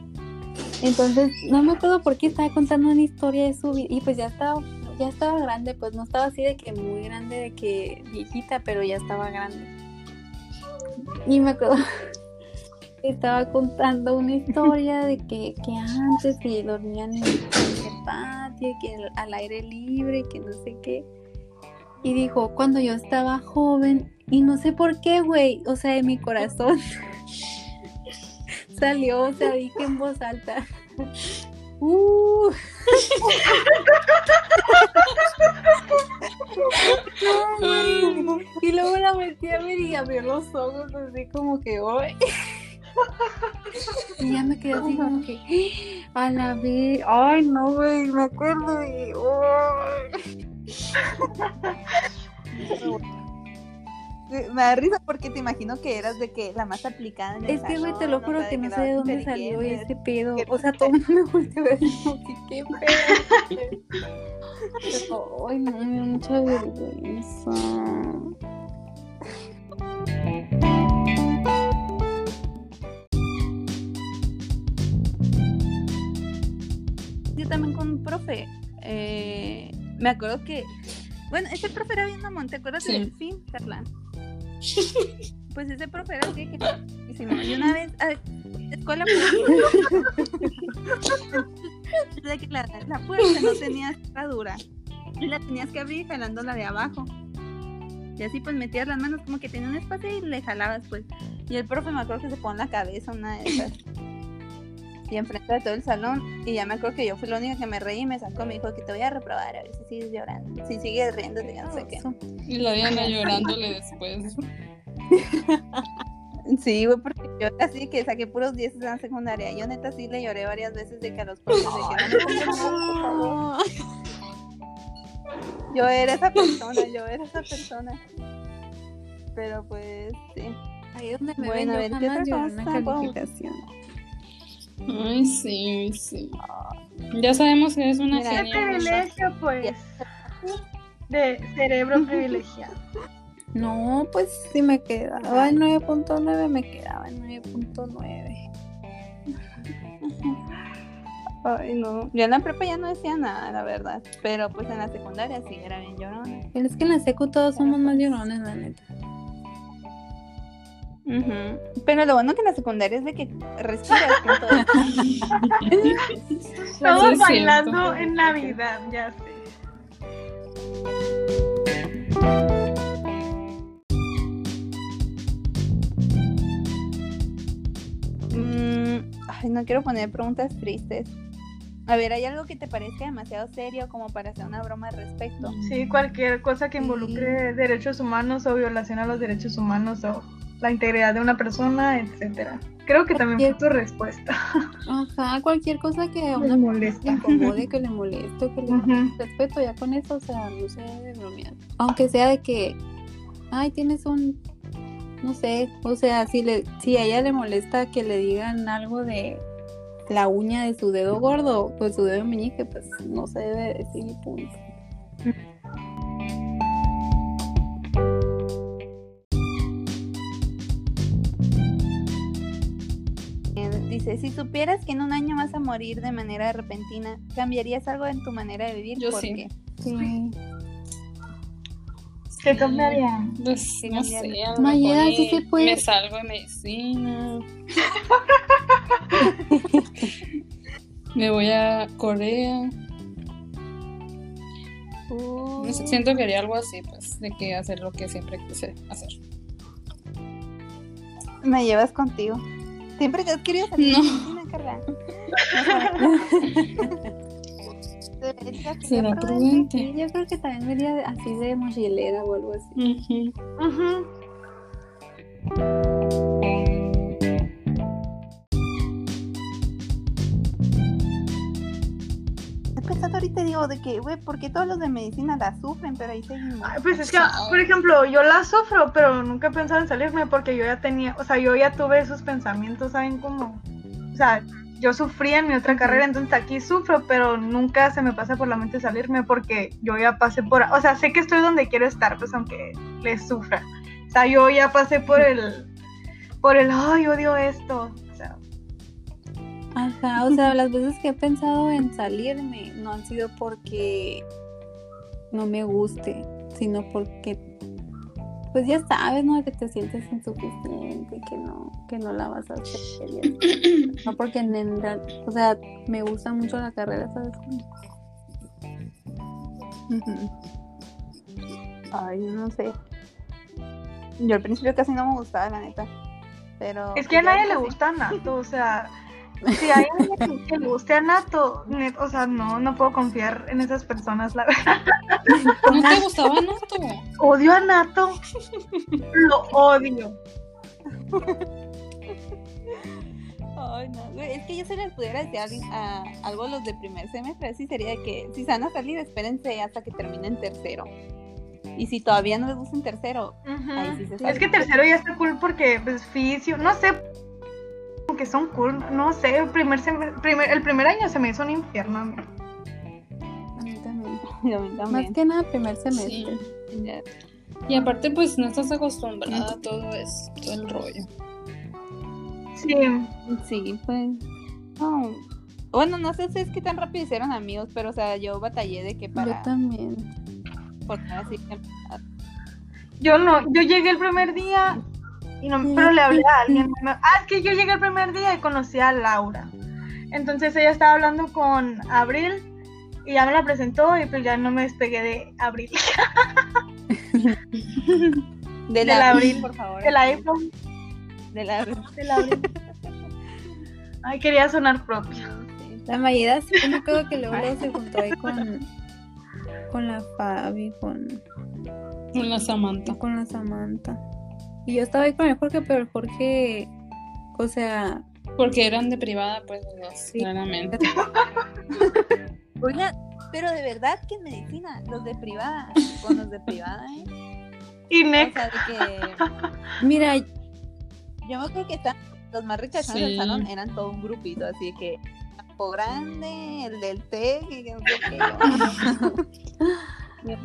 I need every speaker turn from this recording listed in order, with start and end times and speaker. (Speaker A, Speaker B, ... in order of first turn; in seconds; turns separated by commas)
Speaker A: 0.8-9.7, Speaker A: 11.2-11.8, Speaker A: 13.0-21.1, Speaker A: 22.0-26.8, Speaker A: 28.7-30.7, Speaker A: 31.8-33.0, Speaker B: 33.5-33.9, Speaker A: 36.6-42.6, Speaker C: 37.6-38.4, Speaker A: 44.1-50.2, Speaker D: 44.8-45.2, Speaker D: 52.6-53.0, Speaker D: 54.3-60.9, Speaker A: 57.5-63.7, Speaker A: 64.9-68.3, Speaker D: 77.3-80.7, Speaker D: 81.3-83.9, Speaker C: 82.8-83.1, Speaker D: 85.5-90.5, Speaker D: 92.2-94.6, Speaker D: 95.2-97.1, Speaker D: 98.2-103.7, Speaker D: 105.1-112.0, Speaker A: 111.7-112.2, Speaker C: 112.5-114.4, Speaker D: 112.8-113.6, Speaker A: 115.2-115.8, Speaker D: 116.5-123.4, Speaker A: 121.9-123.7, Speaker D: 125.7-128.0, Speaker D: 129.3-130.6, Speaker A: 130.9-133.6, Speaker D: 131.4-133.2, Speaker C: 134.9-136.4, Speaker D: 136.4-136.8, Speaker C: 137.1-139.0, Speaker D: 138.1-139.0, Speaker B: 138.3-140.0, Speaker B: 141.1-142.7, Speaker A: 143.5-148.4, Speaker D: 145.2-145.6, Speaker D: 150.0-150.4, Speaker D: 151.4-156.5, Speaker A: 156.5-158.8, Speaker D: 157.5-158.1, Speaker D: 161.1-165.0, Speaker A: 164.6-165.0, Speaker C: 165.0-165.8, Speaker A: 165.7-166.0, Speaker D: 165.9-166.3, Speaker C: 166.8-167.8, Speaker B: 166.8-169.4, Speaker D: 166.8-168.6, Speaker D: 178.3-181.1, Speaker D: 181.9-185.6, Speaker C: 185.6-186.0, Speaker B: 185.6-194.6, Speaker A: 186.8-187.4, Speaker A: 193.2-193.6, Speaker A: 194.9-202.8, Speaker B: 196.4-197.5, Speaker D: 197.2-197.5, Speaker B: 198.7-199.1, Speaker A: 203.5-204.4, Speaker A: 205.2-209.4, Speaker A: 210.1-214.6, Speaker D: 223.6-229.5, Speaker C: 229.0-229.4, Speaker A: 229.8-230.3, Speaker C: 232.4-237.8, Speaker B: 232.4-233.3, Speaker D: 233.8-234.4, Speaker A: 234.6-235.8, Speaker B: 238.0-239.0, Speaker A: 239.2-240.1, Speaker C: 241.1-242.7, Speaker D: 245.1-246.0, Speaker C: 245.6-249.2, Speaker D: 251.4-252.4, Speaker D: 253.0-254.8, Speaker C: 253.8-254.3, Speaker D: 255.3-256.2, Speaker B: 255.6-255.9, Speaker A: 256.0-256.9, Speaker D: 258.2-259.8, Speaker C: 258.8-259.9, Speaker A: 259.7-262.8, Speaker C: 262.8-263.3, Speaker B: 263.6-264.1, Speaker D: 272.8-276.8, Speaker B: 276.6-283.6, Speaker C: 276.9-277.8, Speaker B: 284.1-295.7, Speaker D: 285.7-286.0, Speaker B: 296.4-298.4, Speaker A: 299.7-304.2, Speaker A: 305.3-307.4, Speaker A: 308.5-317.6, Speaker D: 319.9-320.3, Speaker D: 321.9-322.7, Speaker D: 324.2-325.9, Speaker D: 326.6-327.8, Speaker B: 326.9-328.9, Speaker B: 329.5-336.0, Speaker C: 335.7-337.0, Speaker B: 337.2-338.2, Speaker B: 339.1-340.1, Speaker D: 341.1-341.4, Speaker D: 343.6-350.9, Speaker D: 351.7-354.7, Speaker B: 353.4-357.0, Speaker A: 354.1-354.4, Speaker B: 358.1-362.2, Speaker A: 363.6-364.2, Speaker D: 364.2-365.2, Speaker A: 364.9-366.4, Speaker C: 365.9-366.5, Speaker D: 366.7-367.0, Speaker C: 367.7-371.1, Speaker D: 369.3-369.5, Speaker B: 372.5-373.1, Speaker D: 373.3-374.2, Speaker D: 374.8-379.5, Speaker A: 379.1-380.1, Speaker D: 380.9-382.0, Speaker B: 383.0-384.8, Speaker B: 385.4-389.5, Speaker A: 385.6-386.6, Speaker B: 390.1-392.4, Speaker B: 393.0-396.4, Speaker A: 396.9-397.4, Speaker D: 397.8-400.3, Speaker B: 398.8-400.5, Speaker D: 401.3-402.4, Speaker B: 402.0-402.5, Speaker B: 404.0-405.2, Speaker D: 405.1-405.8, Speaker A: 405.9-408.7, Speaker D: 407.3-407.6, Speaker A: 409.7-411.2, Speaker C: 412.1-413.0, Speaker A: 412.9-414.0, Speaker A: 414.6-416.7, Speaker A: 417.3-418.0, Speaker C: 418.4-420.8, Speaker B: 420.9-421.2, Speaker D: 422.6-427.1, Speaker B: 427.9-428.4, Speaker D: 428.2-429.2, Speaker A: 429.8-430.3, Speaker D: 431.2-439.1, Speaker C: 432.8-433.5, Speaker C: 438.5-438.8, Speaker A: 438.8-439.9